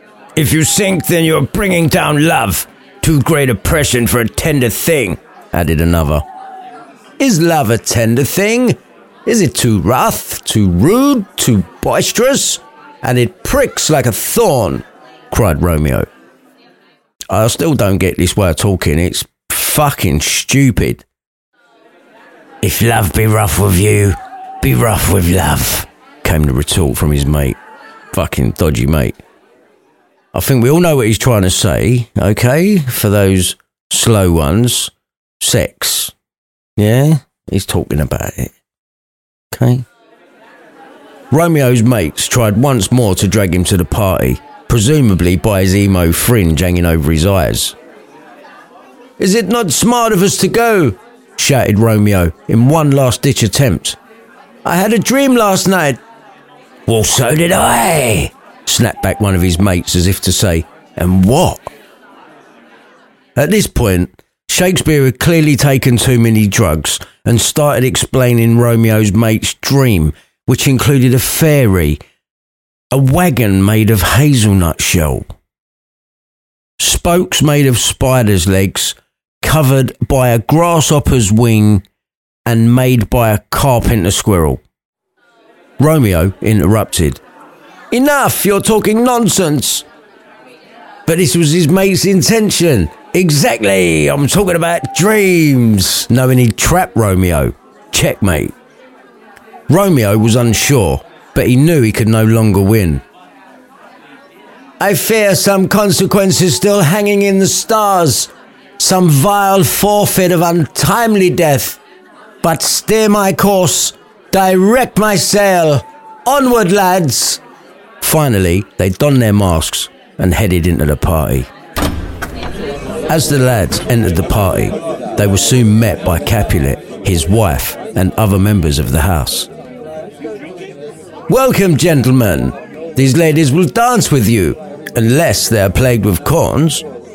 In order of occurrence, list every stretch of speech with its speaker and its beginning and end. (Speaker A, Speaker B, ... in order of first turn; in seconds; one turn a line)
Speaker A: 0.3-6.2
Speaker A: 7.2-16.1
Speaker A: 17.3-21.0
Speaker A: 22.6-27.6
Speaker A: 28.1-29.2
Speaker A: 30.3-36.1
Speaker A: 36.8-38.5
Speaker A: 39.5-39.9
Speaker A: 41.3-47.7
Speaker A: 49.2-54.0
Speaker A: 54.6-56.0
Speaker A: 56.9-61.7
Speaker A: 63.4-72.0
Speaker A: 72.9-75.2
Speaker A: 76.8-81.8
Speaker A: 82.5-84.6
Speaker A: 85.8-87.2
Speaker A: 87.9-89.8
Speaker A: 91.0-98.5
Speaker A: 99.7-103.0
Speaker A: 104.8-111.8
Speaker A: 112.4-117.4
Speaker A: 118.0-121.5
Speaker A: 123.1-129.5
Speaker A: 131.3-136.8